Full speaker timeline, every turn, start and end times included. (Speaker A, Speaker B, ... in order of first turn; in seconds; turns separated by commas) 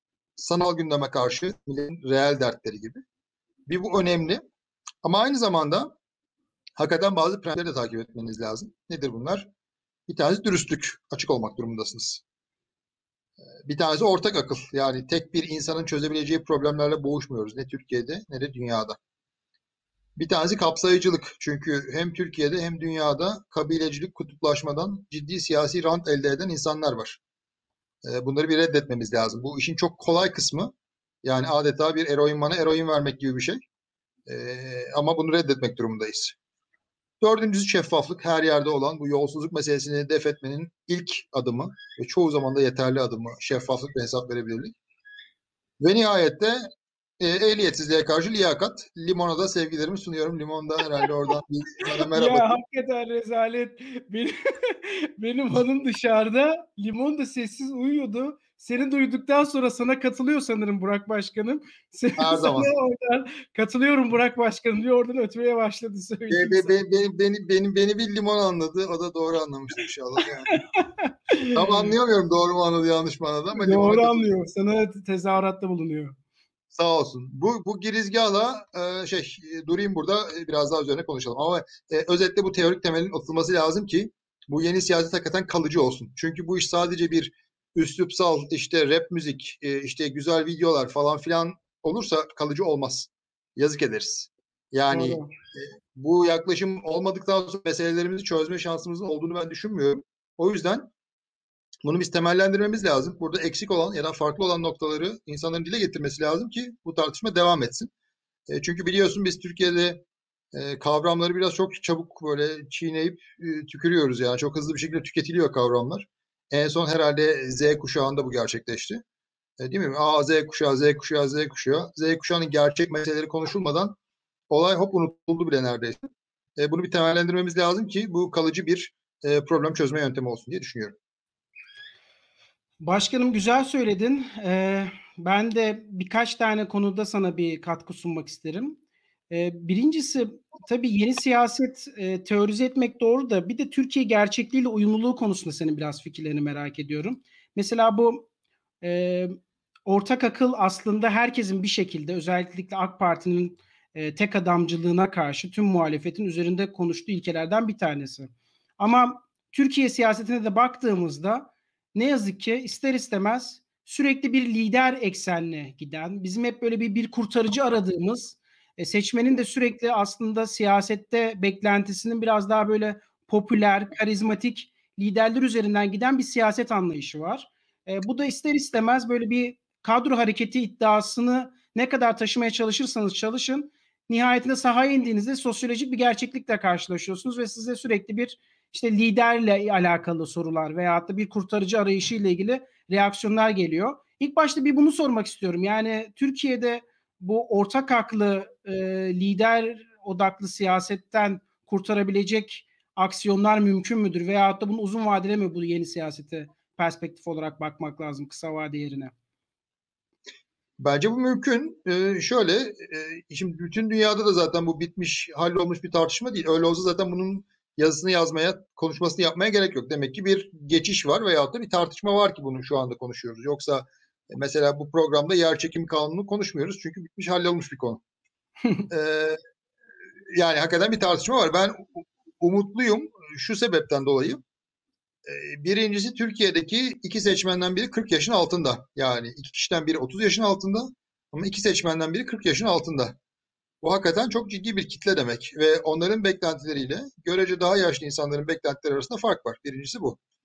Speaker A: 0.4-3.0, Speaker A: 3.7-4.4, Speaker A: 5.0-5.9, Speaker A: 6.8-9.5, Speaker A: 10.1-12.2, Speaker A: 13.6-19.0, Speaker A: 20.2-27.2, Speaker A: 28.0-30.7, Speaker A: 31.2-33.6, Speaker A: 34.3-36.4, Speaker A: 37.2-44.8, Speaker A: 45.8-46.6, Speaker A: 47.2-52.5, Speaker B: 52.0-66.8, Speaker A: 62.2-62.7, Speaker A: 66.3-70.5, Speaker B: 70.5-71.9, Speaker A: 71.5-74.3, Speaker B: 73.5-76.1, Speaker A: 76.7-100.9, Speaker B: 94.9-95.3, Speaker A: 101.8-107.9, Speaker A: 108.5-119.0, Speaker A: 119.6-124.0, Speaker A: 124.5-126.0, Speaker A: 126.6-130.9, Speaker B: 132.8-148.3, Speaker B: 148.8-209.1, Speaker A: 210.8-228.0, Speaker A: 228.9-229.4, Speaker A: 230.3-234.4, Speaker A: 235.2-243.2, Speaker A: 243.8-250.2